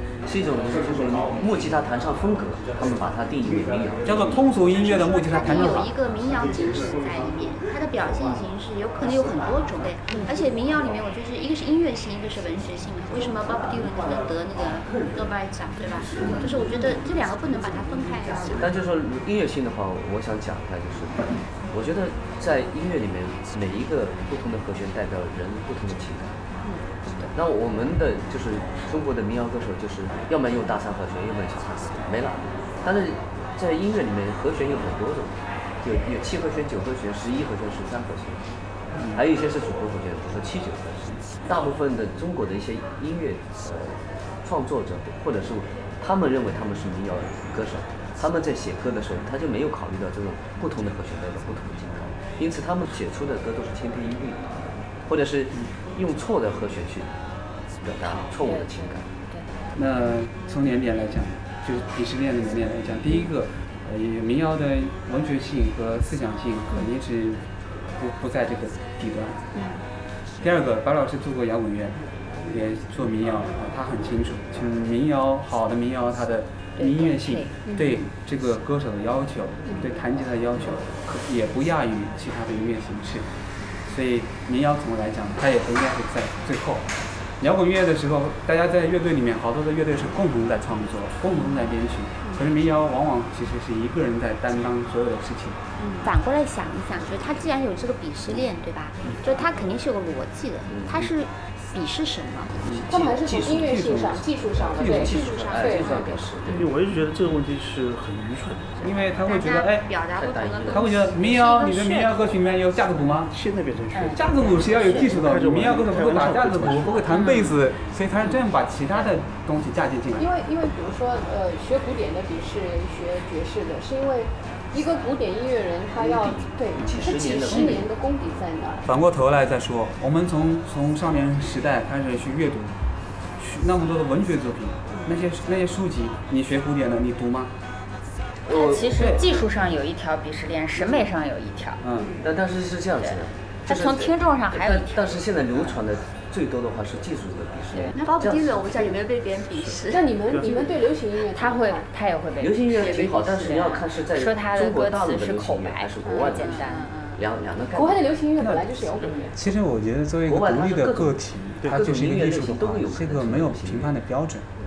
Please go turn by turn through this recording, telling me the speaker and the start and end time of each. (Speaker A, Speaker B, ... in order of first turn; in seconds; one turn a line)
Speaker A: 0.2-4.4
Speaker B: 4.0-5.9
Speaker C: 4.5-18.7
Speaker A: 18.6-21.1
Speaker A: 21.7-26.4
Speaker D: 27.1-27.3
Speaker A: 27.3-38.4
Speaker A: 39.1-57.2
Speaker A: 57.8-59.1
Speaker D: 58.3-59.5
Speaker B: 59.8-69.4
Speaker E: 69.5-69.8
Speaker B: 70.4-72.0
Speaker B: 72.5-83.3
Speaker D: 76.8-77.6
Speaker E: 77.7-78.1
Speaker E: 79.7-79.9
Speaker B: 83.9-86.9
Speaker B: 87.4-95.6
Speaker E: 95.8-96.1
Speaker C: 96.0-102.8
Speaker A: 100.7-101.0
Speaker B: 102.7-105.1
Speaker A: 102.7-103.6
Speaker E: 102.9-106.0
Speaker A: 104.7-106.7
Speaker C: 104.9-106.3
Speaker F: 106.5-108.9
Speaker B: 108.8-109.9
Speaker C: 109.1-112.4
Speaker A: 110.1-110.9
Speaker B: 110.7-113.3
Speaker F: 113.3-117.2
Speaker D: 113.9-115.2
Speaker B: 114.1-120.3
Speaker C: 117.1-117.6
Speaker D: 117.1-117.5
Speaker E: 120.2-128.9
Speaker A: 126.0-127.9
Speaker D: 127.5-127.8
Speaker B: 128.8-132.8
Speaker B: 133.4-137.5
Speaker E: 134.9-135.2
Speaker D: 138.4-141.8
Speaker A: 138.5-138.9
Speaker B: 138.9-139.2
Speaker B: 141.8-142.2
Speaker E: 142.0-142.3
Speaker A: 142.2-149.0
Speaker D: 143.0-145.8
Speaker C: 148.0-150.2
Speaker F: 149.6-150.8
Speaker E: 149.9-151.9
Speaker D: 151.3-156.9
Speaker A: 152.4-158.1
Speaker C: 152.8-153.3
Speaker C: 156.0-157.2
Speaker E: 157.7-159.3
Speaker B: 158.4-164.5
Speaker D: 159.0-159.3
Speaker A: 160.3-163.9
Speaker F: 161.6-161.9